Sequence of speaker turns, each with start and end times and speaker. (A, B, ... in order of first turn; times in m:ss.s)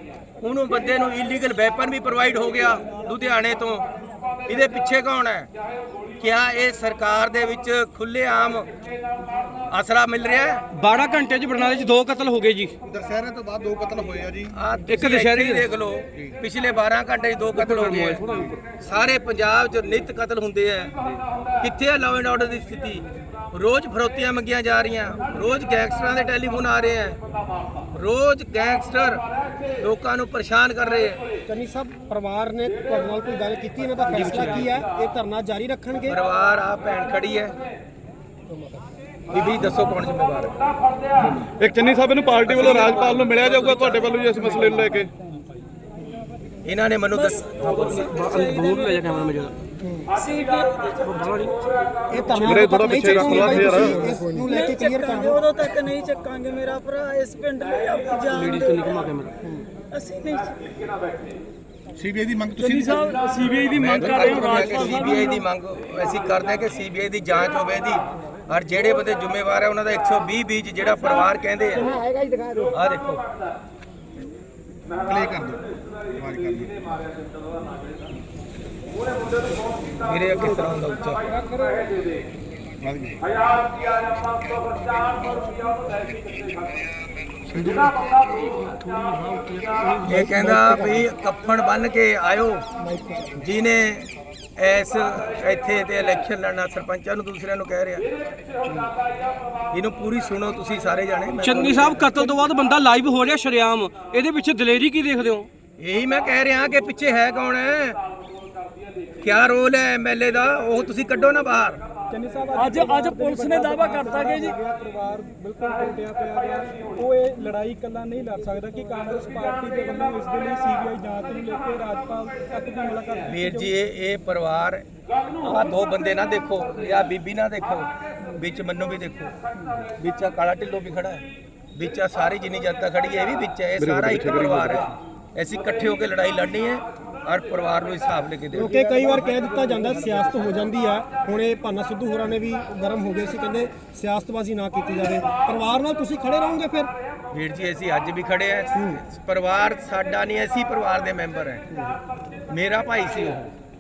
0:00.4-0:03.9 A
0:04.5-0:05.5 A
0:06.2-0:08.7 A
0:09.7-0:10.6 A
0:10.7-0:12.8 B
0:12.9-0:14.5 C
0:14.6-0:18.2 A
0:14.9-0:15.7 B
0:17.5-0:18.6 B
0:18.8-0:20.9 A
0:21.6-0:27.2 A
0:27.9-0:29.2 A
0:29.8-0:31.2 A
0:31.5-0:36.2 D
0:34.1-0:34.8 B
0:36.1-0:37.6 A
0:38.5-0:38.8 D
0:39.3-0:40.5 A
0:41.6-0:45.1 C
0:42.4-0:44.2 A
0:42.5-0:43.4 B
0:46.6-0:48.1 A
0:47.2-0:47.6 E
0:47.6-0:49.6 B
0:48.2-0:48.9 E
0:49.8-0:50.1 D
0:50.2-0:51.0 F
0:51.0-0:51.6 B
0:52.1-0:55.5 D
0:52.5-0:54.3 C
0:54.5-0:58.8 G
0:58.2-0:59.3 B
0:59.9-1:00.5 G
1:02.0-1:03.1 C
1:02.6-1:05.4 E
1:03.7-1:12.0 A
1:03.9-1:04.7 C
1:12.7-1:13.2 A
1:15.1-1:15.6 C
1:16.2-1:16.8 C
1:20.0-1:21.2 A
1:22.8-1:23.2 C
1:27.5-1:30.3 B
1:30.0-1:32.7 A
1:30.1-1:31.0 D
1:32.8-1:33.4 D
1:33.4-1:38.1 A
1:39.7-1:42.1 A
1:41.4-1:45.5 B
1:45.8-1:48.0 A
1:49.2-1:51.8 A
1:52.1-2:03.7 F
1:52.5-1:54.6 E
2:03.3-2:04.8 A
2:05.4-2:09.3 A
2:10.0-2:11.2 A
2:11.8-2:18.8 A
2:13.8-2:14.9 C
2:18.5-2:26.9 D
2:27.3-2:31.6 A
2:28.8-2:29.0 D
2:32.5-2:33.5 A